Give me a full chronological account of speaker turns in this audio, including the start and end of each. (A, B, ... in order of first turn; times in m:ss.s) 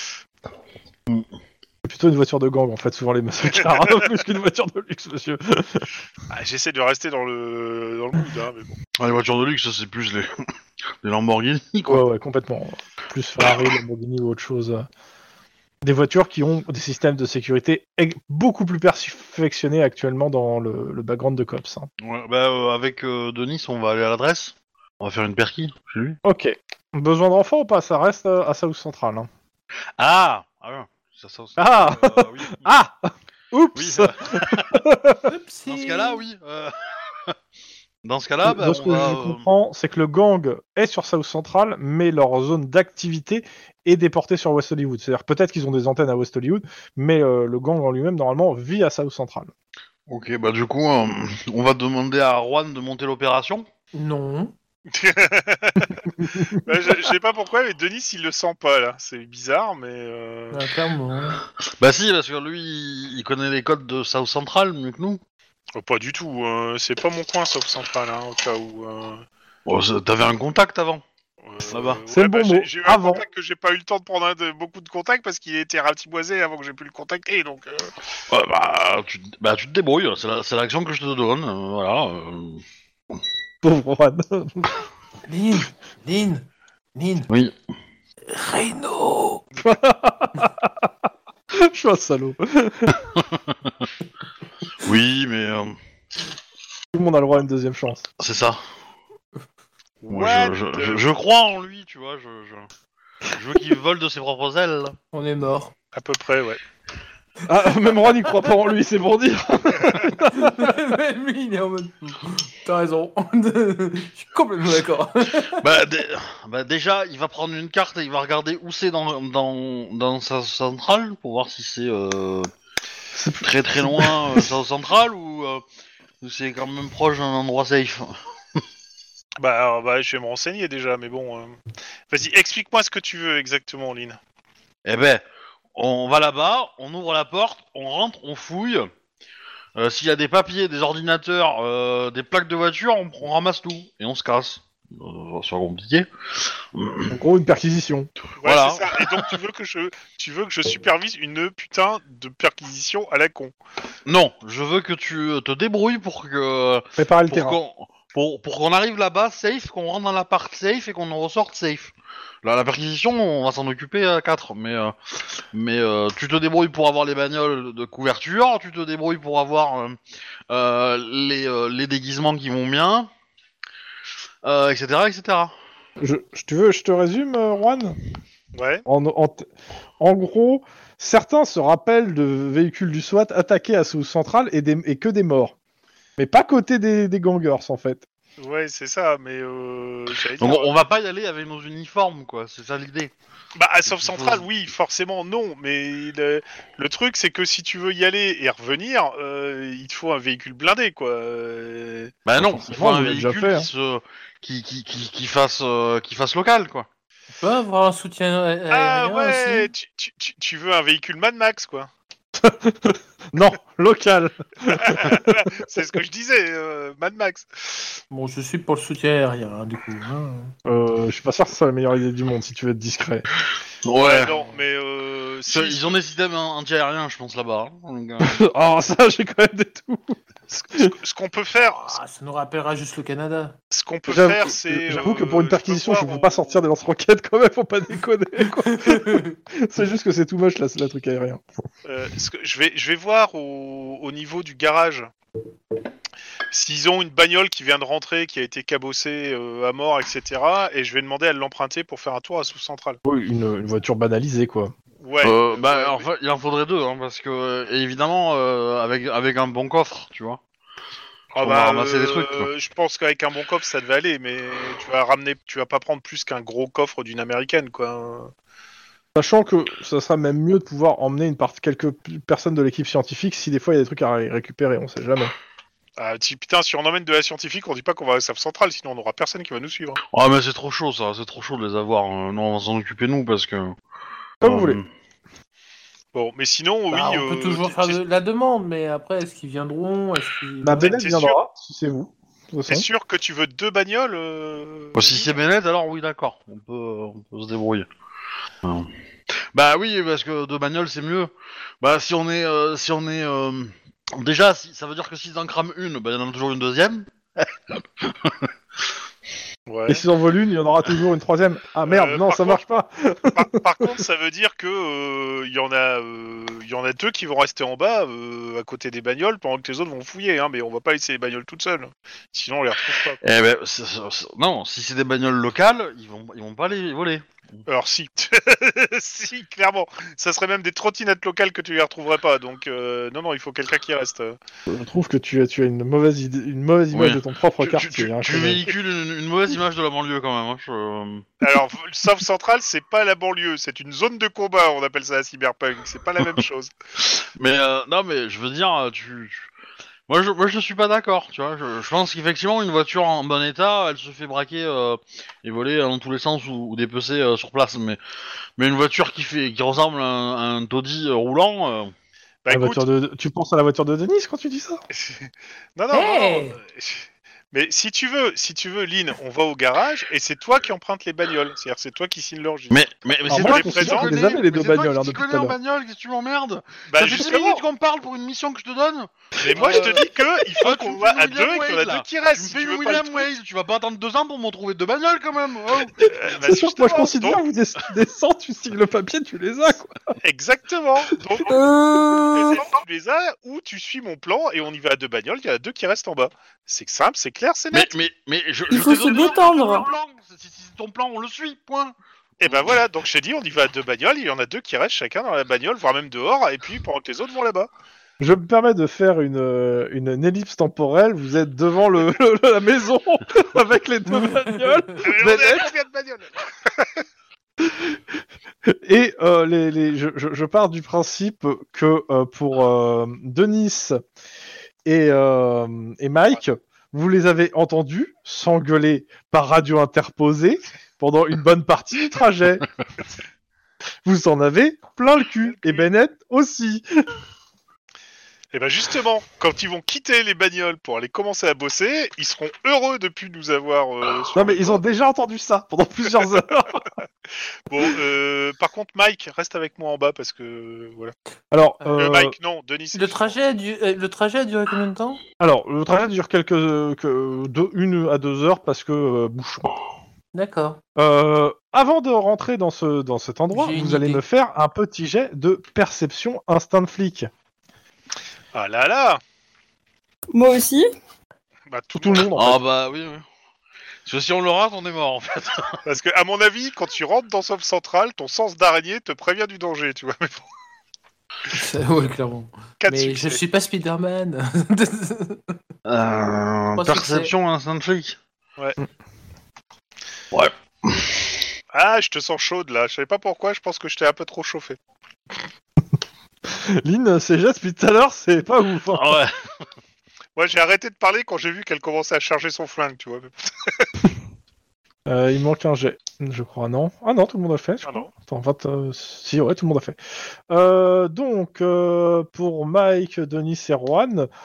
0:01.8-0:05.9 A
0:06.3-0:08.8 B
0:09.0-0:10.4 C
0:11.0-0:12.0 C
0:11.9-0:14.8 A
0:15.8-0:21.9 A
0:22.0-0:26.2 C
0:26.2-0:29.3 A
0:30.0-0:32.7 C
0:31.6-0:35.3 A
0:33.8-0:34.8 C
0:35.3-0:36.2 D
0:35.7-0:37.4 C
0:38.0-0:39.5 C
0:38.4-0:49.5 A
0:50.1-0:53.7 C
0:53.9-0:54.5 D
0:54.9-1:00.7 B
1:00.5-1:01.4 D
1:01.8-1:05.2 C
1:05.8-1:09.2 B
1:09.7-1:11.0 C
1:11.4-1:17.9 B
1:11.7-1:12.0 C
1:12.1-1:13.2 A
1:18.3-1:22.6 C
1:23.6-1:24.8 A
1:25.3-1:27.3 D
1:27.3-1:27.5 C
1:28.3-1:29.4 D
1:29.6-1:30.9 A
1:31.5-1:33.1 A
1:33.2-1:33.9 C
1:34.8-1:35.8 C
1:36.9-1:38.1 A
1:38.2-1:38.6 C
1:40.0-1:41.1 B
1:40.1-1:42.7 C
1:43.2-1:45.0 C
1:45.1-1:45.7 D
1:45.9-1:46.6 B
1:47.5-1:50.8 A
1:50.3-1:55.6 D
1:55.6-2:02.5 C
2:03.1-2:04.5 A
2:03.4-2:05.6 C
2:06.2-2:08.6 C
2:09.4-2:11.6 B
2:12.1-2:14.2 B
2:14.8-2:15.2 C
2:15.8-2:18.9 C
2:19.8-2:27.1 C
2:27.1-2:28.1 A
2:28.4-2:33.6 B
2:28.4-2:29.3 C
2:34.1-2:50.0 C
2:37.0-2:37.6 A
2:50.5-2:53.1 C
2:54.4-2:55.5 C
2:56.0-2:58.0 A
2:58.5-2:58.9 B
2:58.9-2:59.5 A
3:00.0-3:05.5 A
3:06.2-3:08.0 A
3:08.4-3:10.7 B
3:10.4-3:13.1 C
3:13.6-3:22.2 B
3:13.9-3:14.4 C
3:22.2-3:26.9 C
3:22.4-3:23.7 A
3:27.4-3:29.7 D
3:28.7-3:31.9 B
3:32.4-3:35.5 A
3:34.7-3:38.0 B
3:38.1-3:40.5 D
3:40.7-3:43.3 A
3:43.8-3:44.3 C
3:44.0-3:46.0 B
3:45.5-3:48.4 C
3:48.2-3:50.2 A
3:50.5-3:52.0 B
3:51.6-3:53.6 D
3:53.7-3:56.6 B
3:54.1-4:01.4 A
3:58.8-3:59.4 D
4:01.8-4:05.1 B
4:06.5-4:13.0 B
4:13.0-4:14.7 A
4:15.0-4:16.1 B
4:15.2-4:20.4 C
4:21.3-4:28.3 B
4:21.4-4:22.5 C
4:29.2-4:35.3 A
4:36.0-4:40.0 B
4:40.1-4:43.8 C
4:44.4-4:44.9 C
4:44.4-4:44.8 A
4:46.1-4:48.0 B
4:46.9-4:50.9 D
4:50.6-4:52.9 A
4:50.8-4:51.4 B
4:52.7-4:55.4 B
4:54.9-4:57.9 C
4:58.6-5:08.5 C
5:09.7-5:10.0 B
5:09.9-5:14.0 A
5:11.8-5:12.7 B
5:13.3-5:23.2 B
5:23.2-5:27.3 C
5:27.7-5:34.4 B
5:34.7-5:38.7 A
5:36.9-5:41.3 C
5:41.4-5:46.7 B
5:47.0-5:49.5 C
5:50.1-5:58.0 C
5:58.6-6:01.9 C
6:02.4-6:02.9 B
6:02.5-6:04.8 A
6:04.9-6:14.4 B
6:05.9-6:06.6 D
6:12.7-6:25.9 C
6:13.3-6:15.6 A
6:16.9-6:17.6 B
6:19.4-6:23.3 B
6:19.4-6:20.0 A
6:26.0-6:29.9 A
6:26.1-6:27.4 B
6:30.2-6:31.6 B
6:31.4-6:32.6 E
6:32.3-6:37.9 B
6:37.7-6:42.0 C
6:38.7-6:39.9 E
6:42.4-6:47.7 B
6:48.2-6:55.7 A
6:55.0-6:57.0 B
6:57.6-6:58.0 A
6:58.7-7:04.0 A
7:04.9-7:12.6 A
7:14.0-7:16.8 A
7:15.4-7:15.9 B
7:18.5-7:24.8 B
7:24.4-7:26.9 A
7:27.7-7:31.1 B
7:31.5-7:32.4 A
7:31.9-7:33.4 B
7:32.9-7:35.2 D
7:35.4-7:39.7 A
7:40.3-7:40.8 D
7:41.0-7:47.3 A
7:43.5-7:44.2 D
7:48.5-7:49.2 B
7:50.3-7:50.9 E
7:51.7-7:52.4 B
7:52.0-7:52.6 A
7:52.3-7:53.3 C
7:54.0-7:55.8 C
7:55.9-8:00.4 B
8:01.5-8:05.6 D
8:02.8-8:03.4 B
8:05.9-8:08.2 C
8:06.8-8:07.3 D
8:10.3-8:11.4 C
8:11.7-8:14.8 B
8:16.5-8:19.2 A
8:18.9-8:19.4 C
8:20.4-8:23.9 B
8:25.1-8:30.0 A
8:27.8-8:28.1 B
8:30.5-8:34.3 A